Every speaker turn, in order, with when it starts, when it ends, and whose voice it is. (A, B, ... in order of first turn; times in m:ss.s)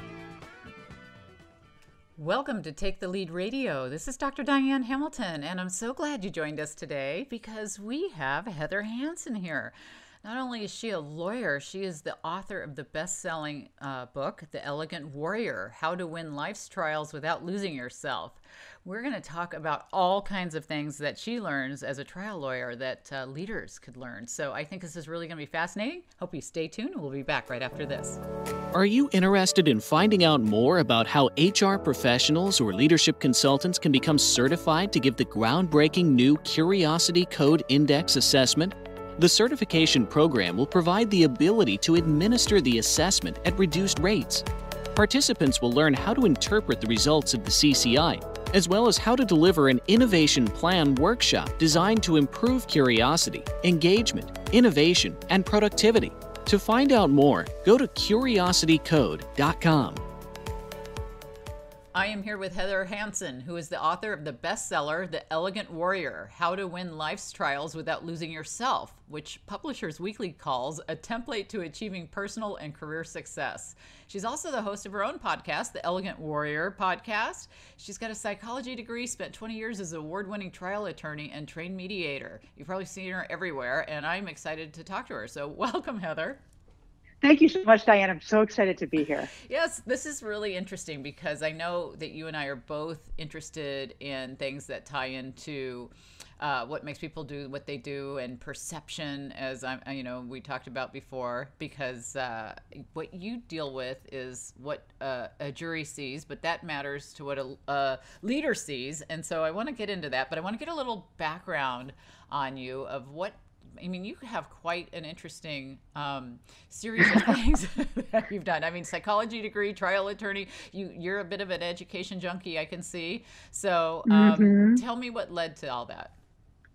0:02.2-0:28.2 A
0:28.7-1:00.0 B
1:01.9-1:26.4 A
1:27.2-1:29.3 C
1:29.3-2:06.1 A
2:04.0-2:04.8 C